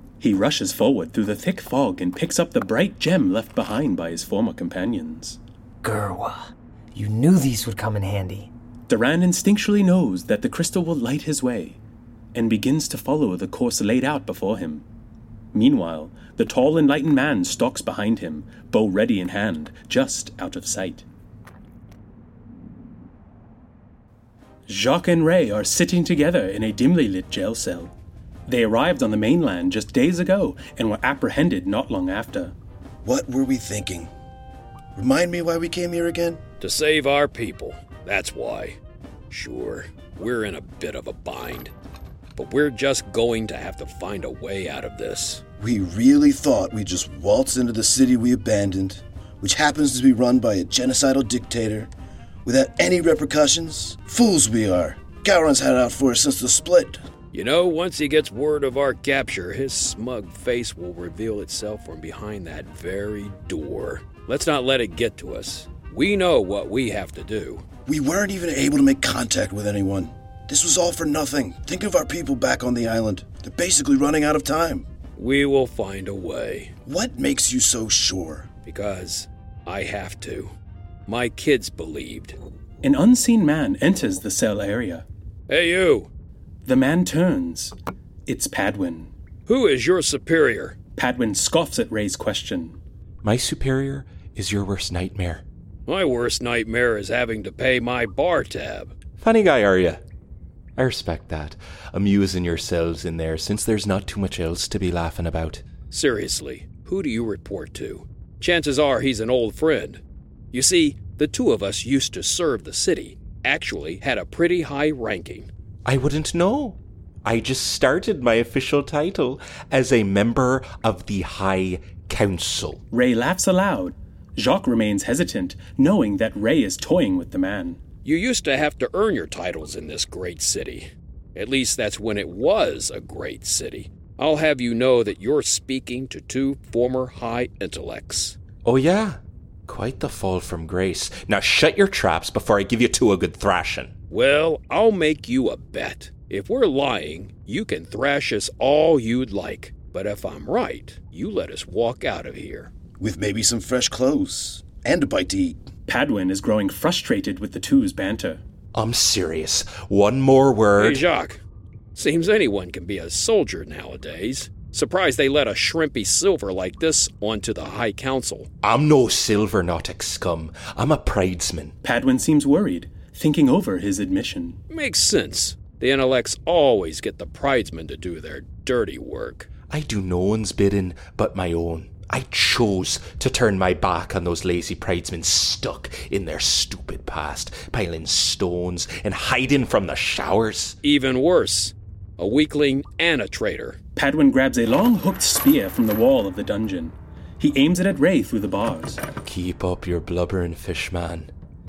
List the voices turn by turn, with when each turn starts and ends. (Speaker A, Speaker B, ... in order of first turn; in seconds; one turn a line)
Speaker A: 0.2-5.4
Speaker B: 5.8-8.5
Speaker A: 8.9-11.8
Speaker A: 12.3-14.8
Speaker A: 15.5-21.0
Speaker A: 24.7-27.9
Speaker A: 28.5-32.5
Speaker C: 33.0-34.1
Speaker C: 34.9-36.4
Speaker D: 36.6-38.8
Speaker D: 39.3-41.7
Speaker D: 42.4-45.4
Speaker C: 45.6-51.9
Speaker C: 52.4-57.0
Speaker D: 57.3-67.6
Speaker C: 67.8-74.8
Speaker D: 75.2-76.7
Speaker C: 76.8-78.5
Speaker D: 78.6-80.5
Speaker D: 81.1-82.3
Speaker A: 82.8-85.0
Speaker D: 85.5-86.1
Speaker A: 86.7-87.7
Speaker A: 88.2-89.1
Speaker D: 89.5-90.8
Speaker A: 91.0-92.8
Speaker E: 93.2-95.4
Speaker D: 95.9-98.9
Speaker E: 99.2-100.0
Speaker E: 100.8-105.6
Speaker D: 105.9-110.0
Speaker D: 110.5-115.5
Speaker E: 115.8-122.8
Speaker A: 122.9-127.8
Speaker D: 128.0-138.3
Speaker E: 138.6-143.9
Speaker D: 144.1-152.7
Speaker C: 153.0-155.6
Speaker A: 155.9-158.4
Speaker E: 158.7-161.0
Speaker D: 160.8-161.4
Speaker D: 161.9-168.5
Speaker E: 168.6-171.7
Speaker A: 171.8-174.6
Speaker D: 174.7-179.5
Speaker E: 179.7-190.8
Speaker D: 190.8-193.8
Speaker A: 193.9-199.0
Speaker E: 199.2-201.3